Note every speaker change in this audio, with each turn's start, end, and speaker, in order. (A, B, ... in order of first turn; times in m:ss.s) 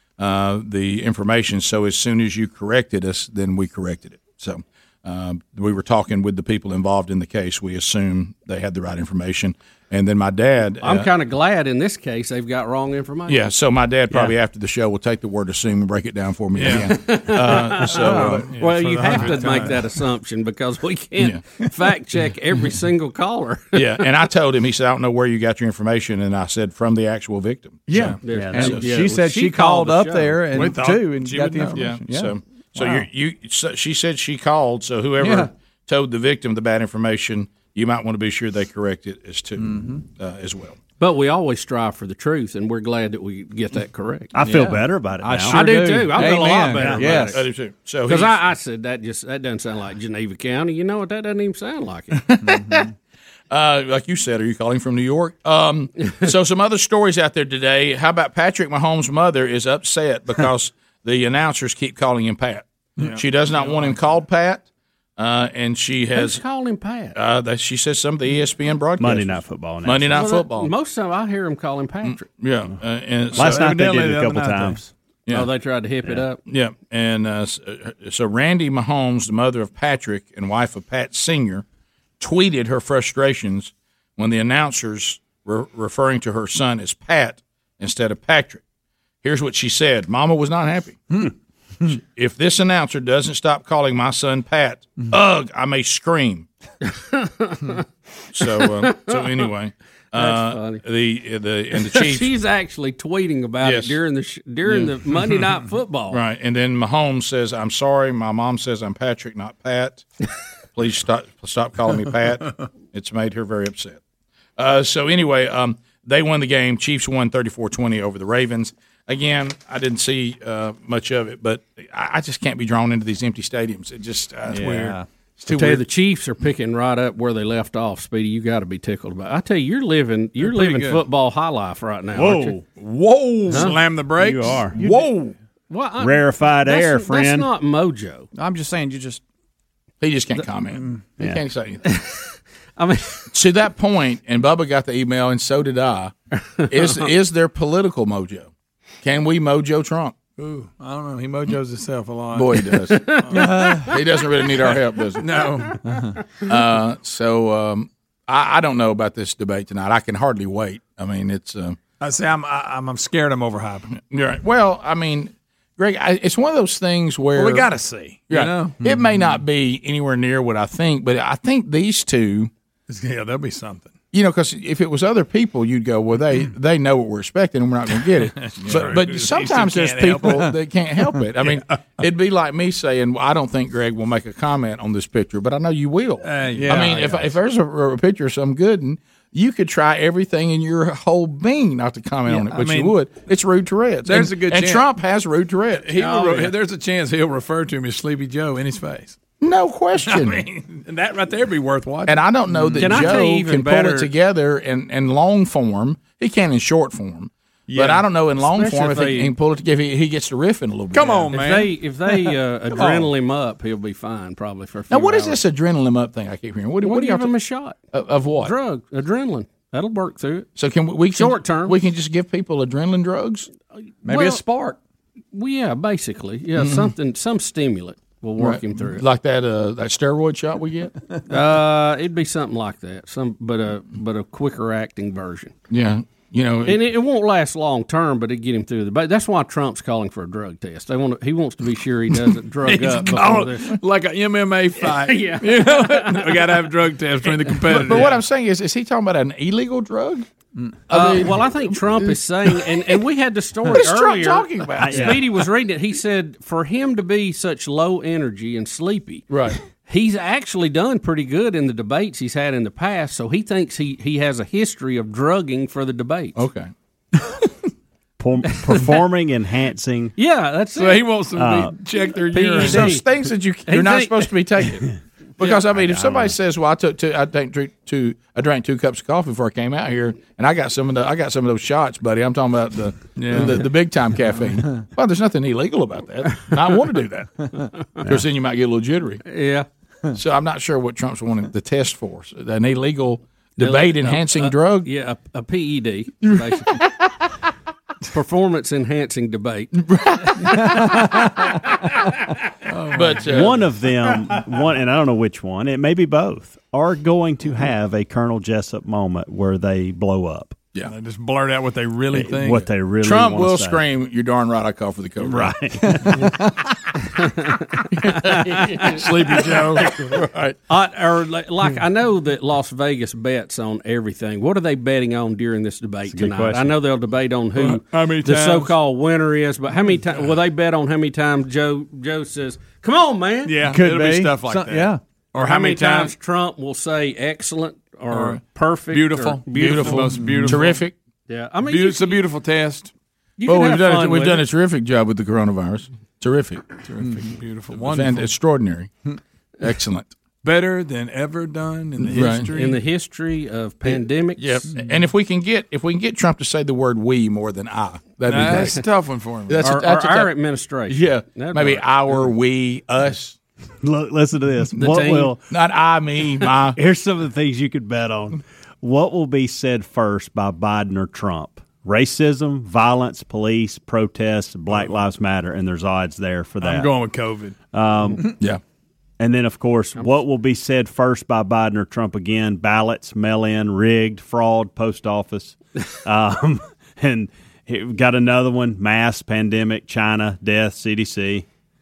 0:00.2-0:11.1 A
0:10.8-0:13.4 B
0:13.3-0:18.5 A
0:16.6-0:16.9 C
0:16.7-0:24.0 B
0:17.8-0:19.8 C
0:23.7-0:28.2 A
0:27.9-0:33.0 D
0:28.2-0:30.4 B
0:28.3-0:28.6 E
0:30.4-0:32.0 C
0:31.7-0:40.8 A
0:39.6-0:40.0 D
0:41.0-0:44.4 B
0:44.4-0:45.7 E
0:44.4-0:47.4 D
0:45.5-0:47.4 B
0:46.4-0:46.9 C
0:47.3-0:48.4 A
0:48.1-0:52.2 B
0:52.4-0:52.9 A
0:53.5-1:04.6 A
1:03.0-1:04.0 C
1:05.2-1:06.4 A
1:06.2-1:07.2 B
1:07.1-1:10.7 A
1:09.0-1:10.3 E
1:10.1-1:12.2 B
1:12.0-1:13.7 A
1:13.3-1:14.9 C
1:13.4-1:14.8 E
1:15.3-1:16.4 B
1:16.4-1:21.6 A
1:22.2-1:28.6 A
1:29.2-1:31.0 A
1:31.8-1:36.5 A
1:36.9-1:37.8 B
1:38.3-1:42.3 A
1:38.5-1:39.5 B
1:40.2-1:40.8 B
1:41.8-1:46.2 B
1:43.6-1:44.0 A
1:46.1-1:50.0 A
1:50.8-1:54.0 A
1:54.6-2:05.8 A
2:04.5-2:05.0 D
2:04.6-2:05.0 C
2:05.5-2:12.6 B
2:10.4-2:11.0 C
2:12.2-2:15.3 C
2:13.5-2:13.8 B
2:14.2-2:14.7 E
2:15.7-2:18.3 B
2:16.0-2:17.5 E
2:18.4-2:19.2 D
2:20.0-2:21.8 A
2:21.8-2:23.2 B
2:23.3-2:26.1 A
2:26.5-2:27.1 B
2:26.7-2:28.5 A
2:29.0-2:30.2 A
2:30.4-2:33.9 C
2:32.3-2:35.5 A
2:32.9-2:33.8 B
2:35.2-2:36.0 C
2:36.4-2:41.8 A
2:42.0-2:43.9 C
2:43.9-2:47.7 A
2:47.4-2:49.2 C
2:48.3-2:52.5 A
2:52.9-2:54.0 C
2:54.1-3:16.5 A
2:58.4-3:00.5 C
3:06.2-3:07.3 C
3:12.3-3:13.0 C
3:14.0-3:14.8 C
3:15.8-3:19.2 C
3:19.4-3:20.4 A
3:20.1-3:23.1 C
3:22.1-3:31.3 A
3:22.8-3:24.1 B
3:27.7-3:28.0 C
3:28.4-3:29.3 B
3:30.9-3:31.7 C
3:31.3-3:35.4 B
3:34.9-3:37.3 A
3:36.8-3:37.8 B
3:37.9-3:38.5 A
3:38.4-3:40.5 B
3:40.6-3:43.5 A
3:41.1-3:41.8 B
3:44.0-3:44.4 B
3:44.1-3:44.8 D
3:45.3-3:49.0 B
3:46.6-3:46.9 A
3:48.4-3:50.9 A
3:51.3-3:55.5 B
3:55.7-3:56.8 A
3:56.7-4:03.8 B
4:02.7-4:08.2 C
4:04.8-4:06.5 B
4:07.6-4:10.3 A
4:10.9-4:12.1 A
4:10.9-4:19.3 B
4:13.7-4:15.2 A
4:14.8-4:15.2 E
4:19.3-4:19.6 A
4:19.8-4:26.4 B
4:26.4-4:26.7 A
4:28.2-4:30.1 E
4:30.2-4:31.1 B
4:30.8-4:33.0 C
4:31.4-4:31.7 E
4:32.3-4:33.1 B
4:32.6-4:47.3 A
4:33.7-4:34.3 B
4:43.2-4:43.6 C
4:48.0-4:49.2 A
4:49.3-4:49.7 B
4:50.1-4:54.9 A
4:53.6-4:56.8 B
4:58.1-4:59.8 B
5:02.7-5:03.5 C
5:02.9-5:03.7 A
5:03.3-5:10.6 E
5:10.8-5:12.7 C
5:12.1-5:13.8 E
5:13.0-5:15.6 A
5:15.2-5:15.9 E
5:17.2-5:19.1 B
5:17.9-5:20.6 A
5:19.0-5:19.9 C
5:20.7-5:33.6 B
5:26.1-5:26.7 E
5:27.6-5:28.7 C
5:33.5-5:36.1 C
5:33.7-5:35.0 D
5:35.4-5:40.1 B
5:38.1-5:40.8 C
5:39.6-5:40.9 A
5:41.3-5:42.2 B
5:41.6-5:42.9 C
5:43.4-5:44.4 B
5:43.4-5:46.7 A
5:46.8-5:48.3 C
5:47.7-5:48.9 A
5:49.6-5:50.1 A
5:50.4-5:52.8 C
5:52.0-5:52.5 A
5:52.5-5:54.7 B
5:54.4-5:58.8 A
5:58.3-5:59.6 C
5:59.5-6:00.3 A
5:59.6-6:01.9 B
6:00.9-6:03.4 A
6:03.8-6:05.4 E
6:04.8-6:05.4 B
6:05.5-6:06.8 A
6:06.8-6:16.9 E
6:16.6-6:17.6 C
6:17.7-6:18.2 E
6:19.2-6:31.5 E